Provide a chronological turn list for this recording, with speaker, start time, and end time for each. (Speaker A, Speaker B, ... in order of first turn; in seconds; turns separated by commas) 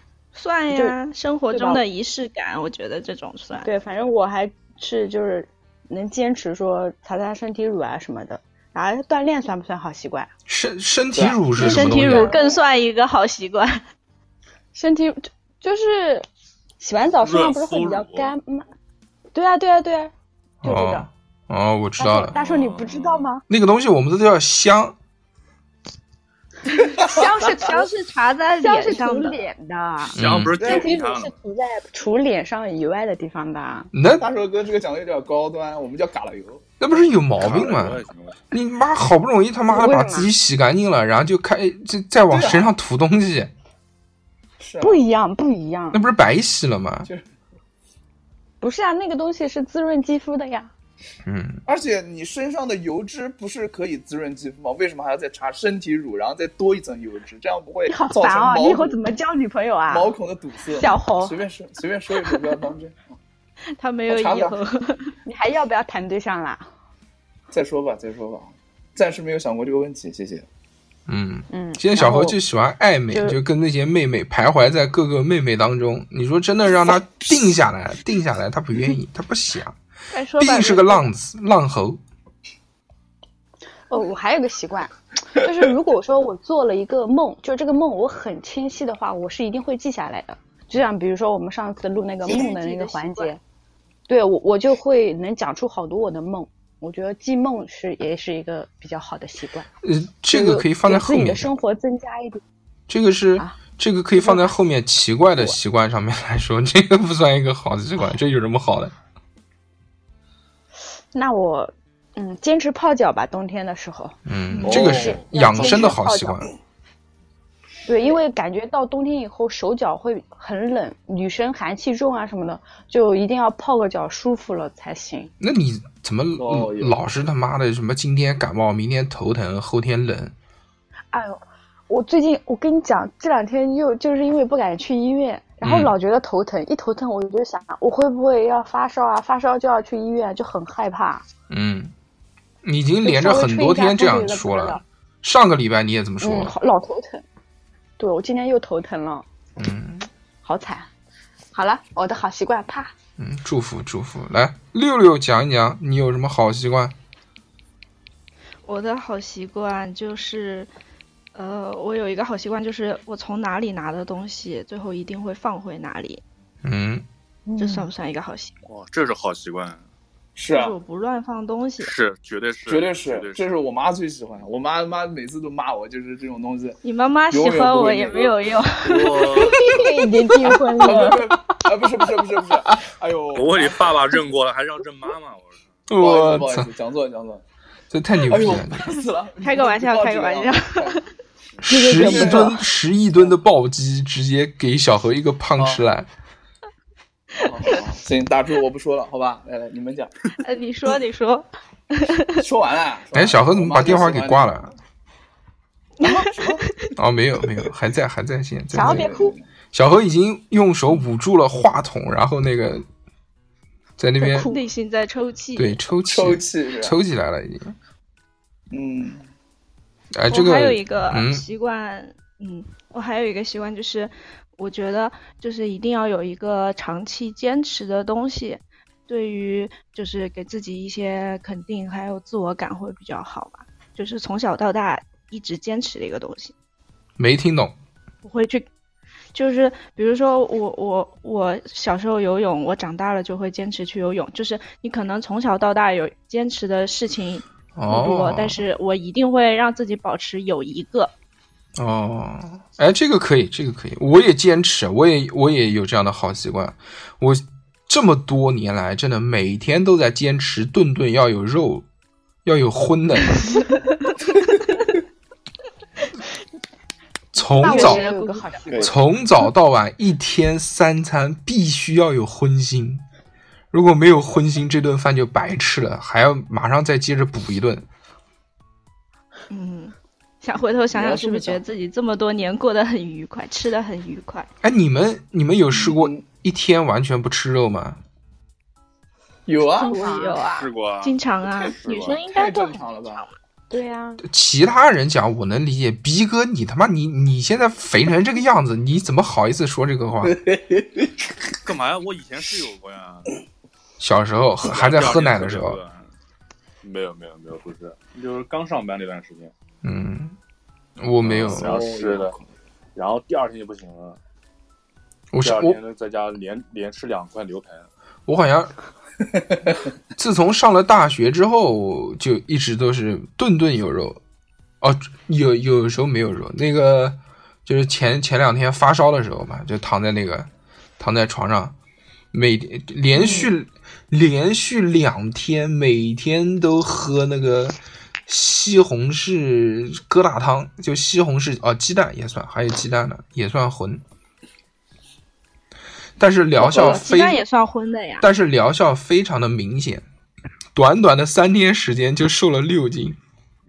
Speaker A: 0.3-3.7, Speaker B: 0.7-1.0, Speaker B: 1.5-1.8, Speaker B: 3.6-10.3, Speaker C: 10.5-12.3, Speaker D: 11.2-11.5, Speaker A: 11.5-13.8, Speaker B: 11.6-12.6, Speaker B: 14.7-16.3, Speaker B: 16.8-18.7, Speaker E: 17.2-18.3, Speaker B: 19.3-20.1, Speaker C: 20.6-22.4, Speaker B: 20.6-21.1, Speaker B: 22.0-23.4, Speaker E: 22.3-23.3, Speaker C: 23.5-25.0, Speaker B: 27.0-27.9, Speaker A: 27.0-29.5, Speaker B: 28.6-33.9, Speaker E: 30.1-31.3, Speaker C: 30.2-30.6, Speaker D: 30.6-30.9, Speaker C: 33.9-34.3, Speaker D: 34.2-36.7, Speaker C: 36.8-43.5, Speaker E: 37.4-38.4, Speaker B: 39.7-40.3, Speaker D: 42.3-42.7, Speaker D: 44.6-45.0, Speaker B: 44.8-46.0, Speaker C: 45.9-47.1, Speaker B: 48.6-50.7, Speaker C: 51.3-51.6, Speaker D: 51.7-59.0, Speaker B: 57.9-60.1, Speaker D: 59.9-63.0, Speaker B: 60.7-61.4, Speaker A: 63.8-65.1, Speaker D: 64.1-64.6, Speaker B: 65.2-66.7, Speaker D: 67.5-70.5, Speaker C: 71.1-79.8, Speaker B: 71.5-72.4, Speaker B: 73.1-73.4, Speaker D: 76.9-77.3, Speaker A: 80.1-81.1, Speaker C: 80.4-82.0, Speaker B: 83.9-93.4, Speaker A: 92.2-93.3, Speaker B: 94.1-99.7, Speaker C: 99.8-101.5, Speaker B: 100.3-102.4, Speaker C: 102.9-108.9, Speaker B: 104.2-104.5, Speaker B: 111.1-116.5, Speaker C: 114.3-116.5, Speaker A: 114.5-114.9, Speaker D: 114.7-115.2, Speaker B: 117.9-125.3, Speaker C: 125.4-130.3, Speaker D: 126.4-126.9, Speaker B: 131.1-141.2, Speaker C: 135.6-135.9, Speaker C: 141.5-141.9, Speaker C: 142.6-146.5, Speaker B: 143.0-144.8, Speaker B: 146.2-147.2, Speaker B: 148.0-149.2, Speaker C: 149.6-150.1, Speaker B: 150.4-150.9, Speaker B: 151.5-152.9, Speaker C: 153.2-156.9, Speaker A: 158.7-160.7, Speaker A: 161.3-166.2, Speaker C: 166.6-167.1, Speaker B: 167.5-167.9, Speaker A: 167.6-168.5, Speaker E: 168.7-169.8, Speaker D: 170.4-170.8, Speaker A: 170.5-171.9, Speaker E: 171.8-173.5, Speaker D: 172.7-179.6, Speaker A: 176.8-179.5, Speaker E: 178.8-179.9, Speaker B: 179.4-181.3, Speaker D: 180.5-184.0, Speaker E: 183.3-185.7, Speaker C: 185.9-186.7, Speaker D: 186.0-187.4, Speaker C: 187.9-188.9, Speaker D: 188.2-191.0, Speaker A: 189.4-191.1, Speaker C: 191.6-196.1, Speaker B: 191.7-192.6, Speaker D: 191.9-192.6, Speaker D: 195.6-195.8, Speaker D: 197.3-200.3, Speaker A: 200.4-202.4, Speaker D: 202.4-204.6, Speaker C: 203.1-204.7, Speaker A: 206.0-206.9, Speaker D: 206.0-206.7, Speaker C: 207.0-209.2, Speaker B: 208.7-209.3, Speaker D: 208.8-209.4, Speaker C: 209.7-212.8, Speaker C: 214.0-214.5, Speaker B: 214.2-214.6, Speaker A: 214.4-215.8, Speaker C: 215.6-217.8, Speaker D: 216.1-217.0, Speaker D: 218.7-219.3, Speaker C: 220.1-221.4, Speaker A: 220.3-236.5, Speaker C: 237.2-237.7, Speaker A: 238.2-238.7, Speaker A: 239.3-251.1, Speaker C: 247.8-248.6, Speaker C: 251.8-261.9, Speaker C: 262.4-263.5, Speaker A: 263.5-263.8, Speaker C: 267.3-268.1, Speaker B: 267.6-269.0, Speaker A: 267.6-268.7, Speaker C: 268.8-273.0, Speaker C: 273.7-277.8, Speaker A: 279.5-284.5, Speaker D: 280.9-281.6, Speaker C: 284.6-288.0, Speaker D: 285.7-286.2, Speaker D: 289.5-290.1, Speaker A: 289.8-293.2, Speaker B: 289.8-290.4, Speaker E: 290.6-292.2, Speaker D: 292.3-293.3, Speaker B: 293.7-294.2, Speaker C: 294.2-300.4, Speaker D: 300.2-301.3, Speaker E: 301.6-303.4, Speaker C: 304.0-305.8, Speaker E: 304.7-306.1, Speaker E: 306.8-309.5, Speaker C: 309.8-310.4, Speaker C: 311.0-311.7, Speaker E: 311.2-312.4, Speaker D: 311.4-312.4, Speaker E: 313.0-314.2, Speaker C: 315.3-315.8, Speaker E: 315.4-317.9, Speaker C: 318.3-318.7, Speaker C: 320.2-324.2, Speaker C: 324.8-331.8, Speaker C: 332.3-337.8, Speaker C: 338.3-344.0, Speaker C: 346.2-347.4, Speaker A: 346.7-348.3, Speaker C: 348.2-350.1, Speaker C: 350.8-353.2